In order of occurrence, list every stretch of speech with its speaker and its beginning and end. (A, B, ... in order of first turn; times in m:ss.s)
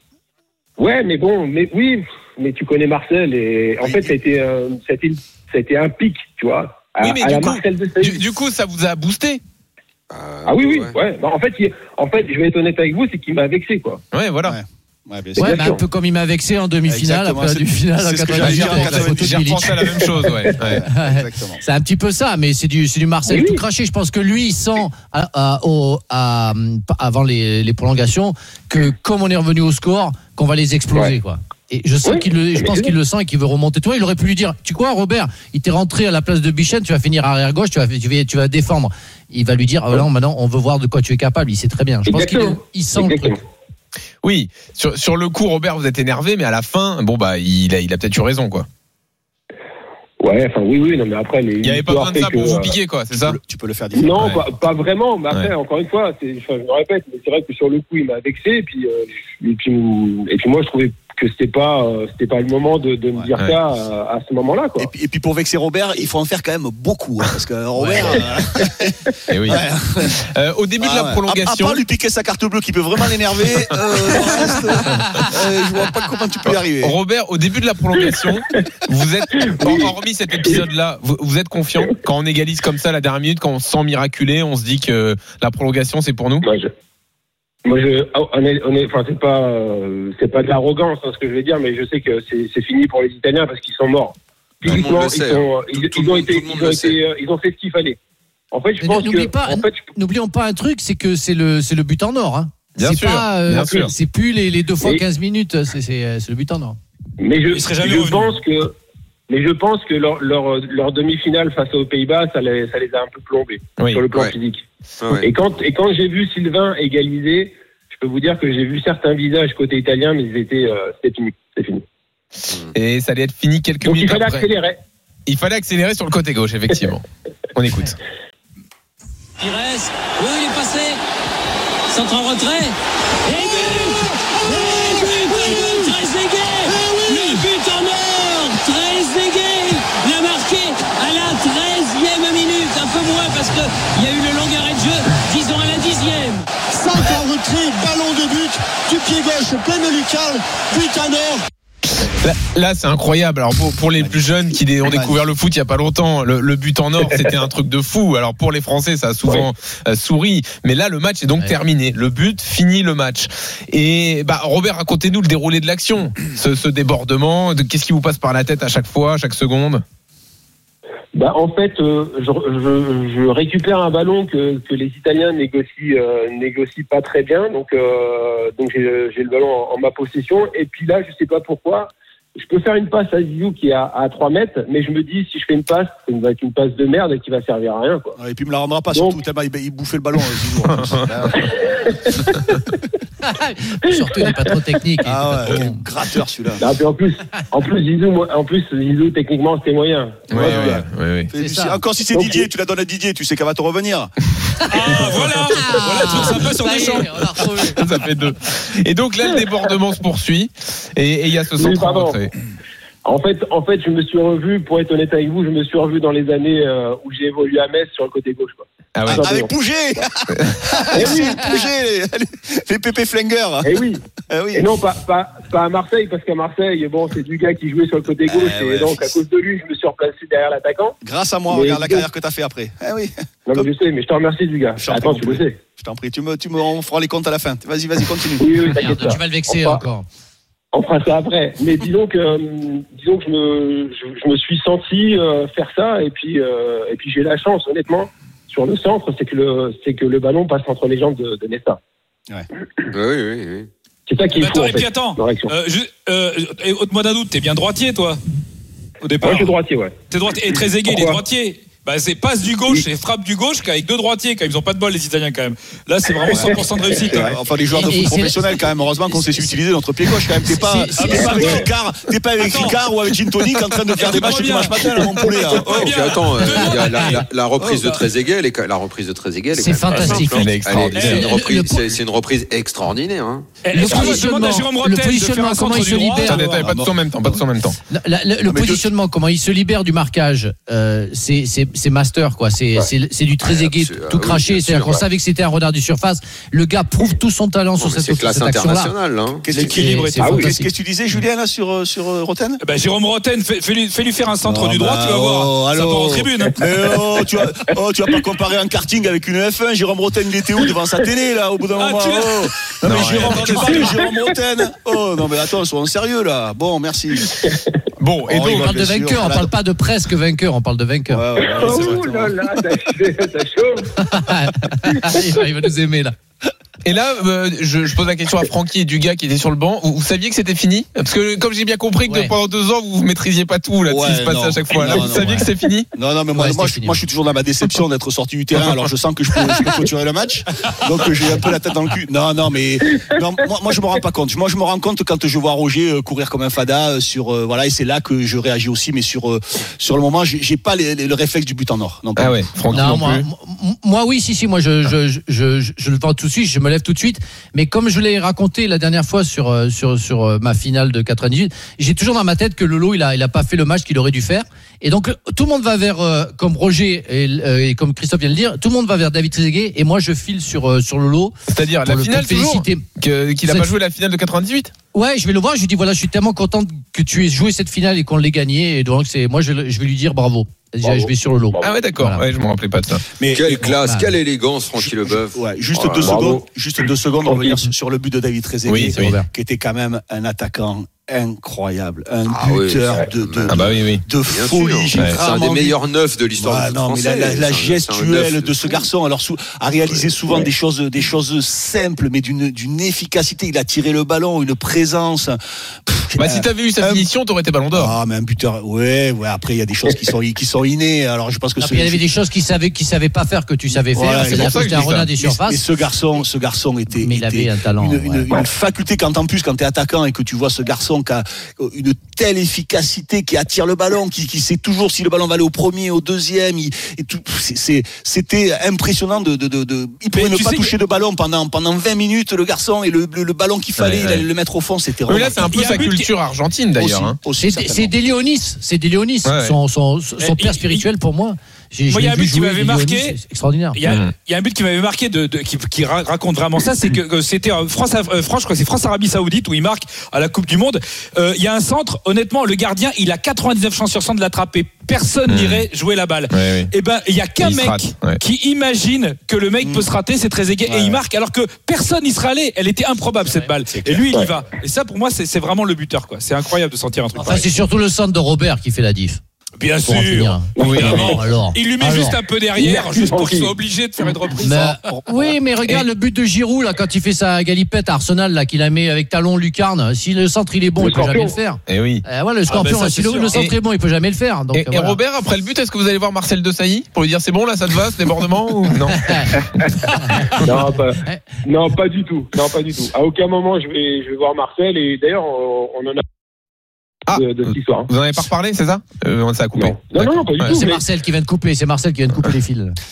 0:00.8-0:08.3 A
0:03.8-0:04.1 B
0:07.0-0:09.4 C
0:10.1-0:11.0 D
0:10.4-0:14.0 A
0:14.1-0:14.6 C
0:14.4-0:15.8 B
0:15.4-0:15.8 A
0:15.4-0:19.9 E
0:16.8-0:19.6 B
0:18.4-0:20.8 C
0:20.6-0:21.6 B
0:20.9-0:43.4 E
0:23.3-0:23.6 A
0:32.0-0:32.9 A
0:42.1-0:43.4 A
0:44.2-0:48.7 C
0:50.2-0:52.7 A
0:51.6-0:53.4 C
0:53.1-0:54.4 B
0:53.9-1:04.9 A
1:04.8-1:10.2 B
1:07.8-1:08.1 C
1:09.3-1:09.6 C
1:10.2-1:11.8 C
1:10.8-1:16.9 B
1:14.9-1:15.3 C
1:16.4-1:26.5 C
1:19.3-1:20.6 A
1:26.4-1:26.7 A
1:27.6-1:38.0 A
1:34.6-1:37.0 D
1:38.5-1:39.8 A
1:38.8-1:46.8 E
1:42.8-1:43.9 C
1:47.2-1:48.7 A
1:47.5-1:48.4 F
1:49.3-1:54.6 A
1:53.8-1:54.0 C
1:55.0-1:55.3 D
1:55.2-2:01.8 A
2:02.5-2:04.4 C
2:03.8-2:04.8 A
2:05.2-2:07.0 C
2:07.5-2:08.0 C
2:09.4-2:11.0 G
2:11.9-2:12.7 G
2:13.2-2:27.2 G
2:16.8-2:17.4 H
2:26.7-2:31.4 H
2:31.9-2:49.8 C
2:34.0-2:35.2 B
2:51.1-3:08.2 A
3:08.2-3:11.5 B
3:08.9-3:09.2 A
3:10.7-3:11.1 C
3:11.3-3:12.7 A
3:13.2-3:15.8 E
3:13.9-3:14.4 A
3:15.0-3:16.6 B
3:16.6-3:20.8 A
3:20.3-3:21.3 C
3:20.4-3:24.1 B
3:21.4-3:21.8 E
3:22.1-3:22.4 A
3:24.7-3:27.2 F
3:25.6-3:27.8 E
3:27.7-3:32.3 C
3:31.6-3:32.2 A
3:33.0-3:40.0 A
3:38.9-3:39.4 C
3:39.0-3:44.7 B
3:40.3-3:41.1 C
3:40.9-3:41.6 A
3:43.6-3:44.0 A
3:44.5-3:51.0 A
3:48.2-3:49.2 B
3:51.0-3:53.7 B
3:51.5-3:52.0 A
3:53.5-3:55.6 A
3:54.8-3:58.6 B
3:58.4-3:59.8 A
3:58.8-4:00.0 E
4:00.7-4:11.8 A
4:12.9-4:13.7 D
4:14.1-4:15.5 A
4:14.3-4:18.2 F
4:19.0-4:19.5 F
4:19.2-4:19.9 A
4:20.1-4:27.4 F
4:20.8-4:21.2 A
4:26.3-4:26.6 A
4:26.3-4:35.9 B
4:27.7-4:29.5 E
4:30.4-4:31.6 E
4:31.0-4:31.7 F
4:31.2-4:31.5 A
4:32.4-4:32.8 F
4:33.9-4:38.0 F
4:35.6-4:43.5 D
4:36.8-4:37.2 E
4:39.5-4:41.9 E
4:40.3-4:41.2 C
4:40.9-4:41.2 F
4:43.6-4:46.7 F
4:43.8-4:46.4 E
4:46.2-4:47.8 C
4:46.4-4:46.9 B
4:47.9-4:58.9 E
4:48.4-4:48.9 B
4:53.4-4:55.0 D
4:57.8-4:59.7 D
4:59.4-5:02.6 B
4:59.5-5:00.3 F
4:59.6-5:00.7 E
5:02.6-5:06.6 F
5:04.4-5:17.4 B
5:11.8-5:13.5 F
5:12.8-5:13.7 C
5:13.6-5:14.3 A
5:17.3-5:17.8 A
5:18.0-5:18.8 C
5:18.3-5:19.5 B
5:18.4-5:21.2 E
5:21.1-5:22.6 B
5:21.4-5:23.9 A
5:24.0-5:26.1 E
5:24.9-5:25.3 A
5:26.8-5:35.9 C
5:32.1-5:32.3 E
5:33.9-5:52.8 B
5:36.3-5:37.0 E
5:52.2-5:53.3 C
5:52.7-6:12.8 E
6:11.5-6:14.7 C
6:13.4-6:13.7 E
6:14.9-6:22.2 E
6:20.8-6:21.8 A
6:21.6-6:23.0 C
6:23.2-6:23.8 B
6:23.3-6:26.2 D
6:23.8-6:24.1 E
6:24.8-6:35.8 B
6:26.0-6:26.4 A
6:27.2-6:27.6 A
6:28.7-6:29.2 C
6:28.9-6:29.3 E
6:32.3-6:38.8 D
6:33.5-6:34.0 C
6:34.9-6:35.2 C
6:36.4-6:47.1 B
6:46.2-6:48.0 C
6:47.7-6:52.0 B
6:51.6-6:55.6 E
6:53.9-7:15.9 B
6:54.2-6:55.1 C
6:56.9-6:58.3 E
7:10.1-7:10.7 F
7:13.8-7:14.2 C
7:15.0-7:17.2 C
7:15.2-7:16.1 F
7:16.8-7:18.0 B
7:17.4-7:23.8 E
7:19.2-7:19.6 C
7:20.2-7:20.8 F
7:21.9-7:23.2 F
7:23.7-7:47.5 F
7:23.8-7:24.1 C
7:35.3-7:35.7 C
7:36.3-7:36.7 C
7:37.4-7:38.2 C
7:39.6-7:39.9 B
7:40.7-7:41.0 B
7:43.7-7:44.0 B
7:47.2-7:49.2 E
7:49.6-7:54.9 F
7:49.8-7:52.2 E
7:50.6-7:51.2 A
7:50.6-7:51.1 C
7:52.6-7:53.5 A
7:54.4-8:05.0 E
7:54.8-7:55.3 B
8:00.8-8:01.4 A
8:01.7-8:02.0 C
8:02.5-8:03.4 F
8:04.5-8:09.4 C
8:08.9-8:09.3 E
8:09.4-8:09.7 A
8:09.9-8:10.4 E
8:10.3-8:10.6 C
8:10.4-8:16.0 A
8:17.1-8:20.6 C
8:17.1-8:17.9 A
8:19.6-8:20.8 A
8:20.4-8:22.8 E